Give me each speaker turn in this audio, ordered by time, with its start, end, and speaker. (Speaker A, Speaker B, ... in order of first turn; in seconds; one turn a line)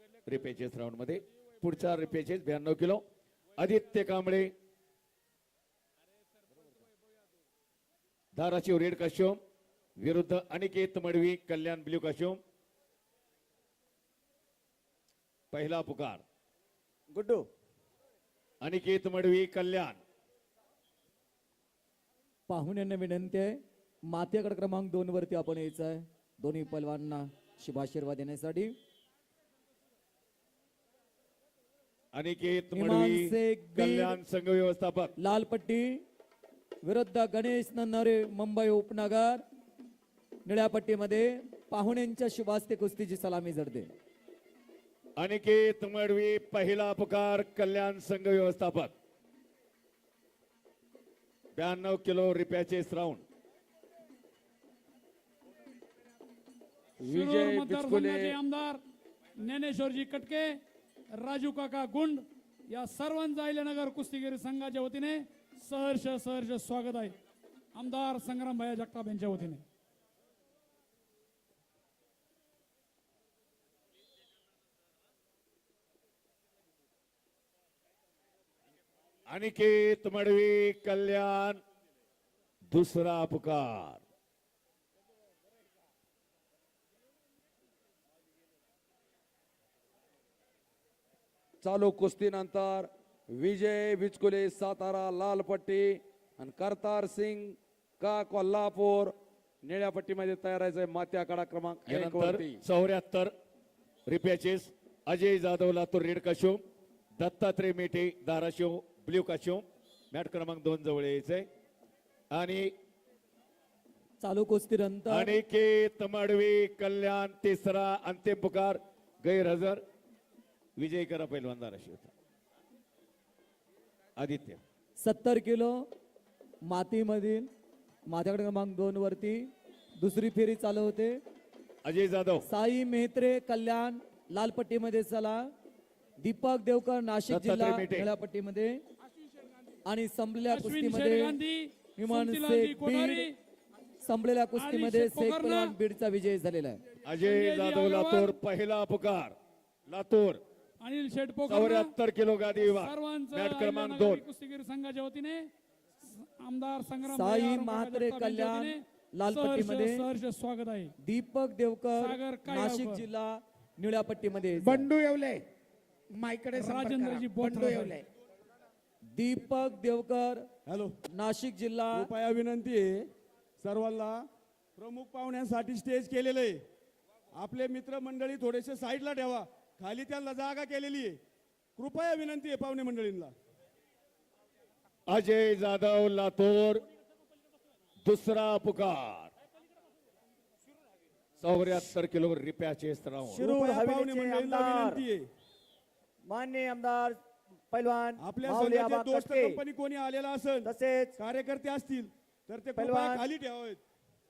Speaker A: 0.2-3.0
Speaker A: 3.6-4.5
Speaker A: 8.3-9.4
Speaker A: 10.0-12.4
Speaker A: 15.5-16.2
Speaker B: 17.1-17.5
Speaker A: 18.6-20.0
Speaker C: 22.5-28.7
Speaker A: 32.1-35.1
Speaker C: 32.7-34.2
Speaker C: 35.2-36.0
Speaker C: 36.8-39.4
Speaker C: 40.4-43.9
Speaker A: 45.2-48.9
Speaker A: 51.5-53.2
Speaker D: 57.0-58.4
Speaker E: 57.1-58.8
Speaker E: 59.4-60.6
Speaker E: 61.2-67.2
Speaker E: 67.7-69.6
Speaker A: 79.3-81.6
Speaker A: 82.7-84.0
Speaker D: 91.6-102.6
Speaker A: 101.8-103.3
Speaker A: 104.0-106.6
Speaker A: 107.2-111.5
Speaker A: 112.3-112.7
Speaker C: 114.2-115.4
Speaker A: 115.1-119.8
Speaker A: 120.8-122.1
Speaker A: 124.2-124.6
Speaker C: 125.0-125.8
Speaker C: 126.7-127.5
Speaker C: 128.1-131.2
Speaker A: 131.8-132.4
Speaker C: 132.4-135.5
Speaker C: 136.2-138.8
Speaker A: 137.3-138.1
Speaker C: 139.8-141.3
Speaker E: 140.5-143.3
Speaker C: 141.9-143.3
Speaker C: 144.0-146.8
Speaker E: 144.6-145.8
Speaker A: 147.0-149.3
Speaker E: 147.2-148.4
Speaker A: 149.9-150.4
Speaker E: 150.8-151.9
Speaker A: 151.5-154.2
Speaker E: 152.7-155.5
Speaker E: 156.0-160.9
Speaker C: 157.1-160.1
Speaker C: 161.0-164.9
Speaker E: 162.0-163.1
Speaker F: 164.6-165.4
Speaker F: 166.1-168.0
Speaker E: 166.5-168.0
Speaker C: 169.1-170.5
Speaker G: 170.7-170.9
Speaker C: 171.1-172.1
Speaker G: 171.9-173.1
Speaker G: 173.6-174.2
Speaker G: 174.8-176.6
Speaker G: 177.3-181.2
Speaker G: 181.8-183.3
Speaker A: 185.1-186.8
Speaker A: 188.0-189.3
Speaker A: 191.4-193.4
Speaker G: 193.3-195.3
Speaker B: 193.3-195.0
Speaker B: 196.2-197.2
Speaker B: 197.7-199.6
Speaker G: 198.2-203.8
Speaker B: 200.6-201.2
Speaker B: 202.8-203.3